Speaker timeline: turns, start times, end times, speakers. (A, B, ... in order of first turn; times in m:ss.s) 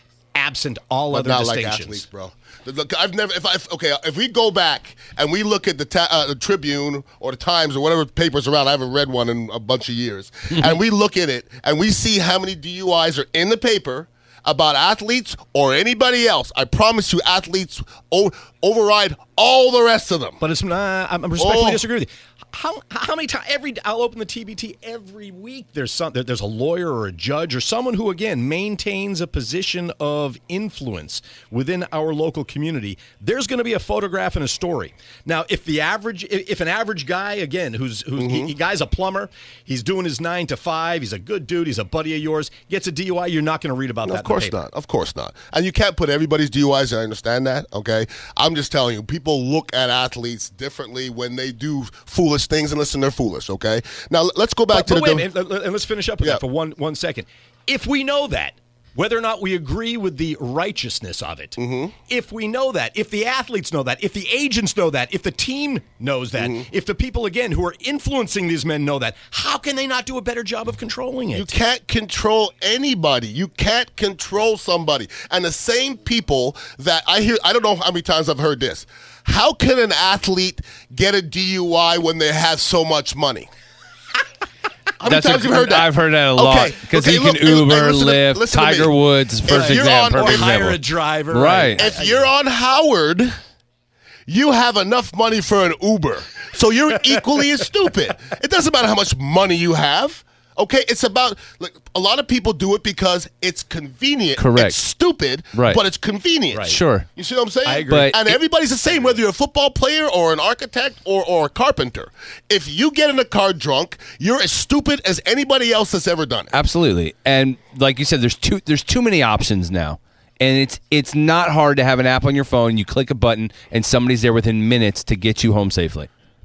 0:00.3-0:02.0 A
0:01.1-0:20.4 B
0:20.4-0:44.6 A
0:21.4-0:21.8 B
0:38.2-0:38.5 B
0:44.0-0:55.2 B
0:54.7-1:11.5 A
1:01.6-1:01.9 B
1:06.4-1:06.6 B
1:11.3-1:23.5 B
1:25.0-1:30.5 B
1:25.0-1:30.8 C
1:29.5-1:32.3 A
1:31.3-1:31.8 C
1:31.8-1:33.3 B
1:34.3-1:56.5 B
1:44.4-1:44.8 C
1:45.5-1:45.8 C
1:46.5-1:46.8 A
1:46.7-1:47.1 C
1:47.6-1:48.4 A
1:47.9-1:48.2 C
1:56.5-2:06.1 C